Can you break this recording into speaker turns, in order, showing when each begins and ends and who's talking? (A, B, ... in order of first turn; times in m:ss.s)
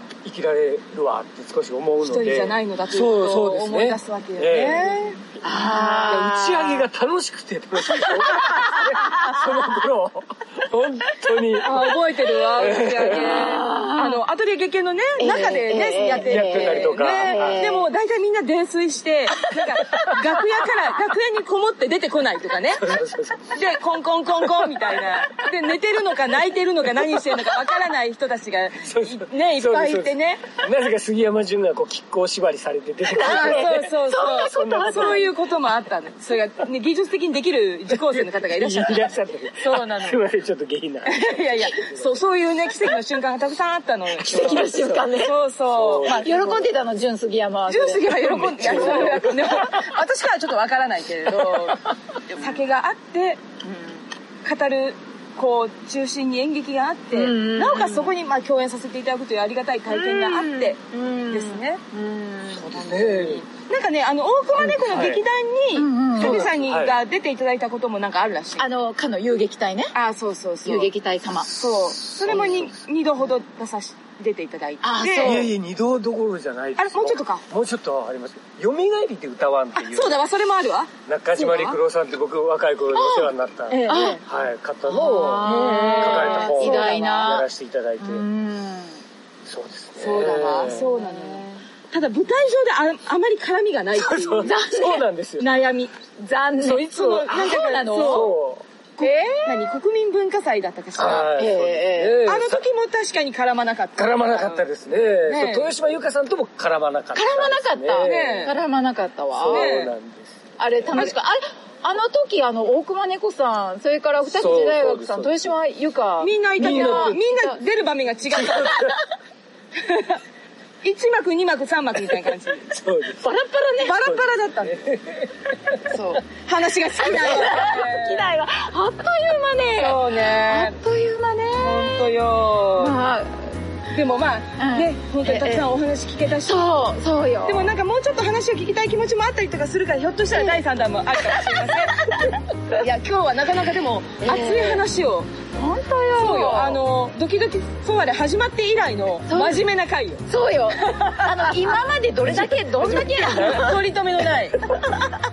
0:00.2-0:13.4 A
0:02.0-0:05.2 B
0:05.4-0:06.8 C
0:08.3-0:09.2 C
0:11.6-0:30.6 B
0:13.2-0:14.2 C
0:15.2-0:16.6 C
0:16.1-0:17.8 A
0:17.2-0:17.8 C
0:19.5-0:20.8 A
0:22.7-0:23.6 A
0:24.6-0:25.5 A
0:27.0-0:27.6 A
0:28.8-0:35.4 A
0:33.2-0:35.1 C
0:33.2-0:39.2 B
0:37.9-0:42.2 A
0:39.7-0:40.1 C
0:41.0-0:46.7 B
0:44.1-0:46.3 A
0:44.2-0:45.4 C
0:46.0-0:48.2 C
0:47.7-0:53.4 B
0:48.1-0:49.7 A
0:52.3-0:52.6 C
0:53.6-0:54.0 C
0:54.4-1:01.8 B
0:57.1-0:58.2 C
0:59.9-1:03.0 C
1:02.5-1:03.4 A
1:03.2-1:08.7 B
1:04.5-1:05.2 A
1:05.7-1:06.4 C
1:06.2-1:07.0 A
1:08.6-1:09.9 C
1:09.9-1:10.9 B
1:10.7-1:11.6 C
1:11.5-1:15.5 B
1:12.0-1:12.8 A
1:14.8-1:15.5 C
1:15.1-1:20.2 A
1:16.8-1:17.4 B
1:19.8-1:21.8 B
1:21.0-1:28.2 A
1:23.7-1:24.2 B
1:23.9-1:24.2 C
1:24.8-1:27.5 C
1:25.3-1:27.4 B
1:28.0-1:29.0 C
1:29.4-1:31.0 A
1:30.0-1:34.5 B
1:30.1-1:31.5 C
1:34.0-1:35.5 A
1:34.4-1:35.0 C
1:35.4-1:35.9 B
1:36.2-1:38.3 C
1:36.6-1:38.3 B
1:36.7-1:37.2 A
1:38.0-1:38.6 A
1:39.0-1:41.4 B
1:39.0-1:39.6 C
1:41.0-1:42.6 A
1:41.4-1:42.2 C
1:42.2-1:45.7 B
1:44.0-1:48.6 A
1:47.2-1:49.6 C
1:48.0-1:48.6 B
1:49.3-1:51.1 A
1:49.4-1:50.0 B
1:50.6-1:57.6 C
1:54.2-1:55.6 A
1:56.2-1:58.9 B
1:56.5-1:57.2 A
1:58.3-1:59.0 A
1:59.8-2:00.2 B
2:00.8-2:02.7 B
2:02.0-2:03.3 A
2:03.2-2:04.0 C
2:03.8-2:04.8 B
2:04.0-2:06.0 A
2:05.8-2:08.3 B
2:07.0-2:12.0 C
2:09.7-2:10.8 B
2:11.6-2:13.0 B
2:12.8-2:13.6 C
2:13.9-2:16.7 B
2:14.5-2:15.7 C
2:16.4-2:17.8 C
2:17.4-2:22.0 B
2:20.3-2:20.6 C
2:21.2-2:22.8 C
2:22.8-2:25.3 B
2:24.2-2:24.9 C
2:25.5-2:26.8 C
2:26.1-2:31.6 B
2:29.3-2:29.6 C
2:30.3-2:33.8 C
2:32.2-2:33.8 A
2:33.2-2:34.6 B
2:34.5-2:35.1 A